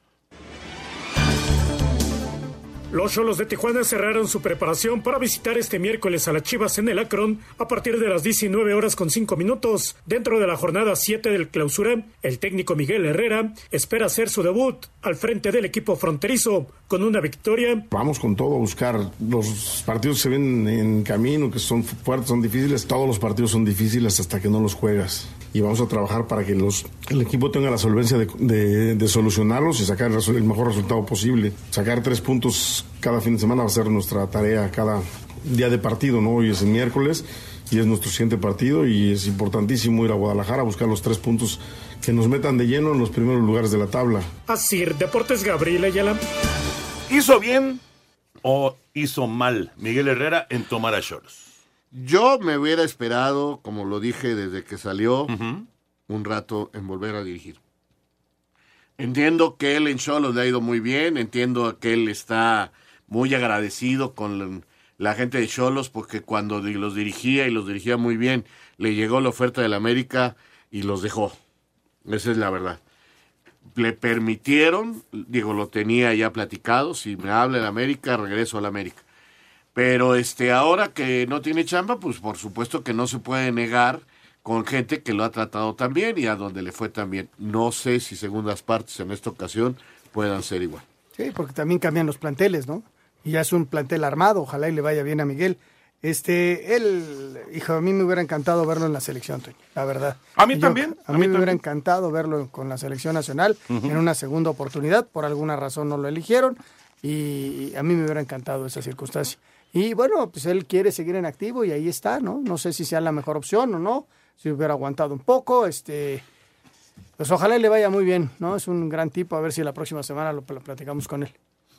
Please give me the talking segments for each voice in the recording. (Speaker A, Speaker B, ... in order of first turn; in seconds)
Speaker A: 2.9-17.9, 44.5-46.2
Speaker B: 17.9-44.3
Speaker C: 47.1-47.8, 48.4-51.5, 55.3-55.6, 100.3-101.6, 103.7-103.9
Speaker D: 51.9-55.4, 56.1-57.6, 59.0-71.4, 72.0-72.8, 73.7-79.0, 79.7-90.8
Speaker E: 91.2-116.2, 117.2-121.3